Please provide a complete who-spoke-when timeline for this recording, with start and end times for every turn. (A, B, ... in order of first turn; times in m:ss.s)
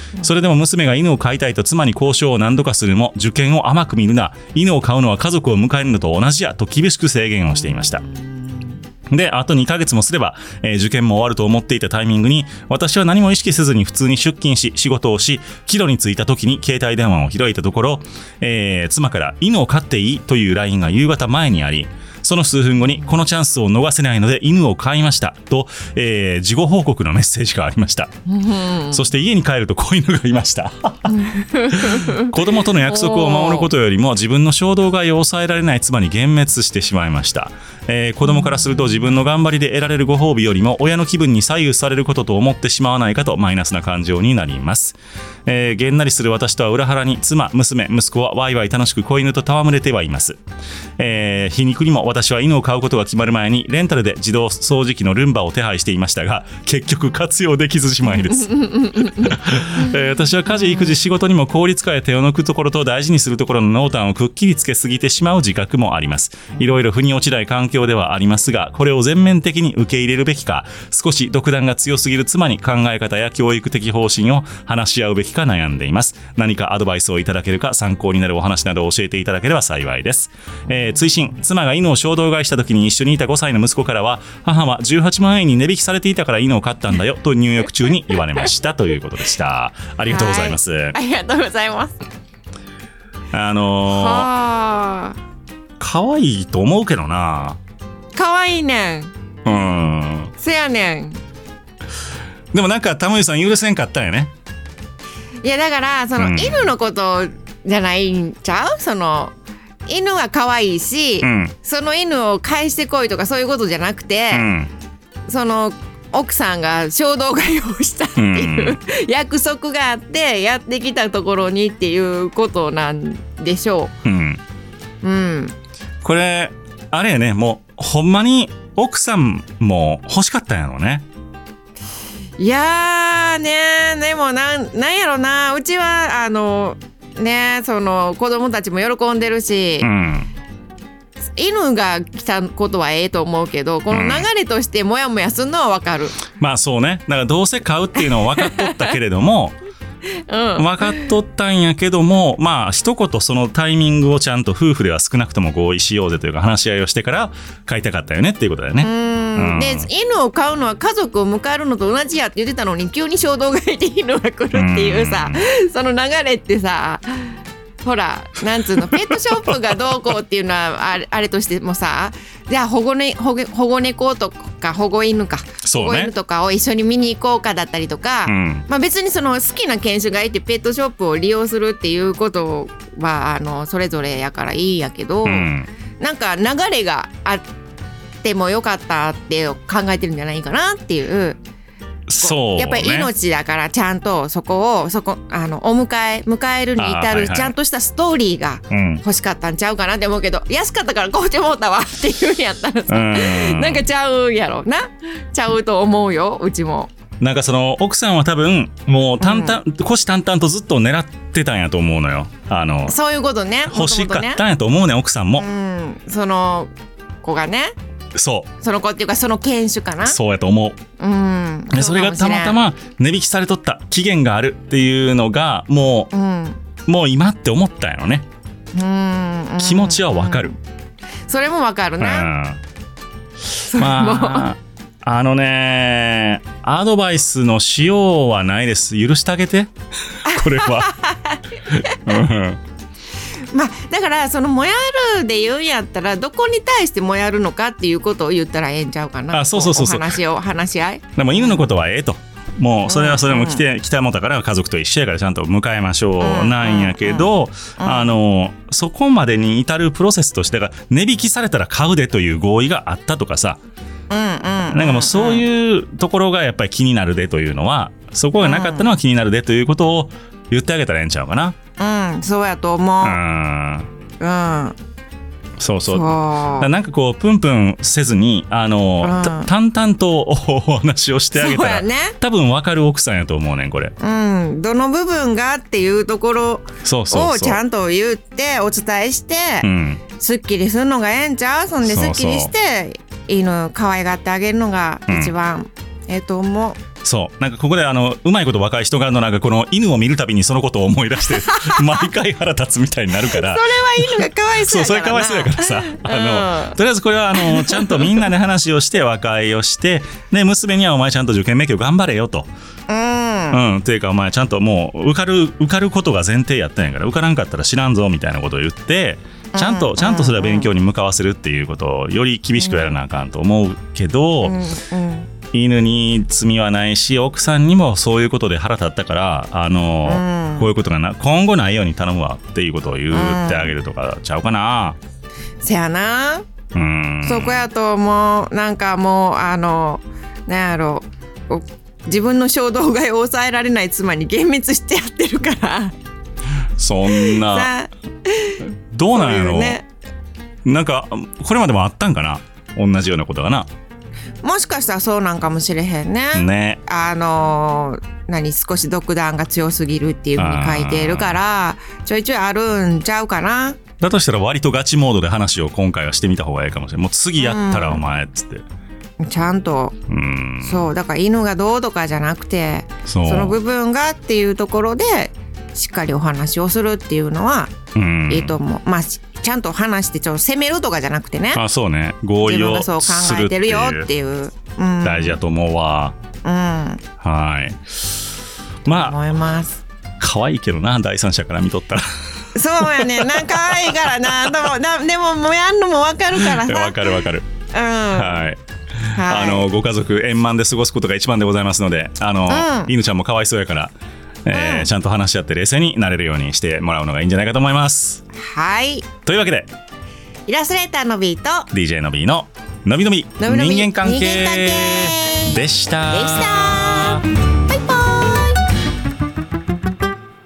0:00.2-0:08.0 A
0:07.5-0:08.8 B
0:09.1-0:28.1 A
0:28.3-0:29.0 B
0:28.9-0:50.4 A
0:31.1-0:32.3 B
0:32.9-0:33.7 B
0:38.3-0:38.8 B
0:51.0-1:31.0 A
1:30.0-1:32.0 B
1:33.3-1:34.3 A
1:33.9-1:35.2 B
1:35.8-1:37.6 A
1:38.2-1:39.1 B
1:39.4-1:40.3 A
1:40.4-1:41.2 B
1:42.5-1:44.3 A
1:45.4-1:49.3 B
1:46.2-1:46.7 A
1:49.9-1:54.5 B
1:51.2-1:51.5 A
1:54.3-1:54.7 A
1:55.3-2:03.9 B
1:58.2-1:58.8 A
2:04.0-2:04.4 A
2:05.0-2:05.5 B
2:06.0-2:11.0 A
2:12.4-2:19.9 B
2:19.8-2:20.3 A
2:21.4-2:26.2 B
2:23.9-2:24.3 A
2:26.4-2:29.6 A
2:28.0-2:28.9 B
2:30.3-2:31.1 B
2:30.6-2:39.9 A
2:38.8-3:05.5 B
2:44.5-2:45.4 A
2:48.8-2:50.0 A
2:55.6-2:56.1 A
2:58.3-2:58.7 A
3:05.2-3:05.7 A
3:06.0-3:07.4 B
3:08.2-3:11.4 B
3:12.1-3:13.1 A
3:12.2-3:26.9 B
3:16.8-3:17.5 A
3:18.7-3:19.0 A
3:22.9-3:23.9 A
3:27.2-3:33.0 A
3:29.2-3:29.6 B
3:32.9-3:34.4 B
3:33.7-3:35.5 A
3:35.4-3:36.7 B
3:37.2-3:37.7 B
3:38.2-3:38.5 A
3:38.6-3:40.2 B
3:40.0-3:40.8 A
3:41.0-3:42.6 B
3:41.7-3:46.1 A
3:46.1-3:46.6 B
3:46.9-3:48.3 A
3:48.7-3:50.5 B
3:49.6-3:50.6 A
3:51.3-3:52.3 B
3:52.0-3:52.6 A
3:53.6-3:54.5 B
3:53.7-4:01.0 A
4:00.3-4:01.4 B
4:01.7-4:02.6 A
4:03.5-4:11.7 B
4:09.3-4:10.1 A
4:11.2-4:23.6 A
4:12.9-4:13.6 B
4:16.2-4:18.1 B
4:24.1-4:25.5 B
4:24.7-4:31.6 A
4:28.4-4:28.9 B
4:31.8-4:33.2 B
4:33.0-4:33.9 A
4:34.2-4:34.8 B
4:35.6-4:36.1 A
4:35.9-4:36.7 B
4:36.6-4:43.9 A
4:39.0-4:39.5 B
4:41.4-4:42.2 B
4:44.0-4:49.7 B
4:46.8-4:47.6 A
4:49.6-4:50.0 A
4:50.2-4:56.8 B
4:51.8-4:52.5 A
4:55.1-4:55.3 A
4:57.0-5:12.5 A
5:01.5-5:01.9 B
5:03.2-5:06.8 B
5:07.3-5:08.3 B
5:12.9-5:13.6 B
5:13.5-5:24.6 A
5:19.5-5:20.7 B
5:22.6-5:23.0 B
5:24.4-5:25.3 B
5:25.5-5:35.0 A
5:30.0-5:30.7 B
5:33.1-5:33.7 B
5:35.6-5:36.5 B
5:36.7-5:37.6 A
5:37.2-5:45.9 B
5:46.8-5:47.7 A
5:47.1-5:49.9 B
5:48.9-5:49.8 A
5:50.6-5:53.7 A
5:54.4-6:03.8 B
5:56.3-5:56.8 A
6:00.4-6:01.4 A
6:04.0-6:08.6 A
6:07.4-6:08.0 B
6:09.2-6:10.0 B
6:10.1-6:10.9 A
6:10.6-6:17.8 B
6:13.1-6:13.6 A
6:18.0-6:18.6 A
6:18.3-6:21.6 B
6:21.6-6:24.1 A
6:22.4-6:25.4 B
6:25.0-6:26.2 A
6:26.4-6:27.0 B
6:27.2-6:28.2 A
6:28.9-6:29.3 A
6:28.9-6:29.8 B
6:30.2-6:32.0 A
6:32.6-6:37.0 B
6:32.8-6:34.6 A
6:36.3-6:37.5 A
6:37.7-6:38.4 B
6:38.1-6:43.9 A
6:39.1-6:39.7 B
6:42.5-6:42.9 B
6:44.4-6:48.2 A
6:44.5-6:44.9 B
6:48.3-6:49.1 B
6:49.2-6:49.7 A
6:50.5-6:51.7 B
6:51.7-6:57.2 A
6:53.4-6:58.6 B